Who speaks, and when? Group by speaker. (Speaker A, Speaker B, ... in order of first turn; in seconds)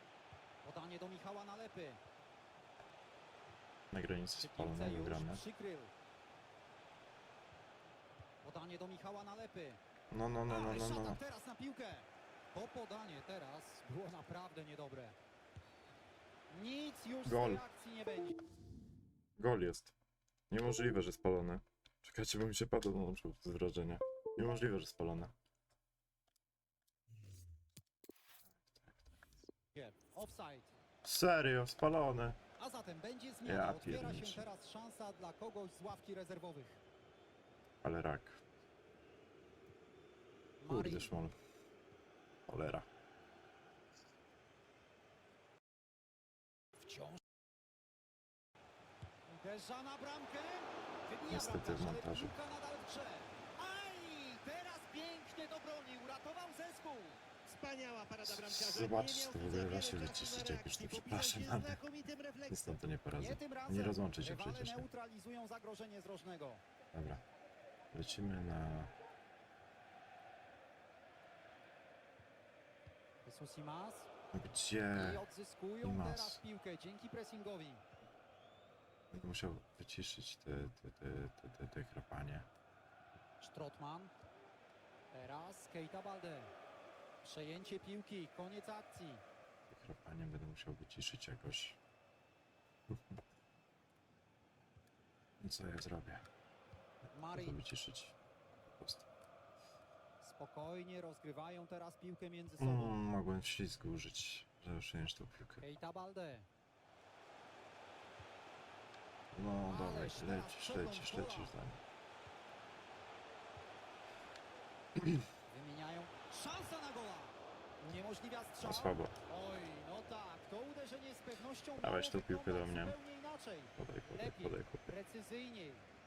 Speaker A: 0.6-2.0, 4.3-5.9, 8.4-9.8, 10.5-15.2, 16.5-18.4, 29.7-30.7, 32.6-36.8, 40.6-41.1, 46.8-47.2, 49.3-57.2, 63.2-66.6, 73.2-74.1, 74.9-77.8, 83.4-84.1, 85.1-86.5, 87.2-89.2, 97.1-97.6, 100.2-103.0, 105.6-106.5, 109.7-111.5, 115.5-125.8
Speaker B: 3.9-5.4, 10.1-11.2, 17.2-17.6, 19.4-19.9, 20.5-25.3, 28.6-29.1, 31.0-32.4, 33.5-34.4, 37.8-38.4, 40.7-41.4, 42.5-42.9, 51.3-52.4, 58.2-61.8, 62.5-64.9, 66.9-67.2, 67.9-68.9, 74.3-75.2, 75.8-76.4, 79.1-82.5, 89.7-91.8, 95.4-96.3, 97.3-98.2, 98.7-99.1, 102.6-105.7, 109.3-111.8, 115.0-115.2, 118.6-119.1, 121.8-123.0, 123.8-124.9
Speaker C: 57.5-62.8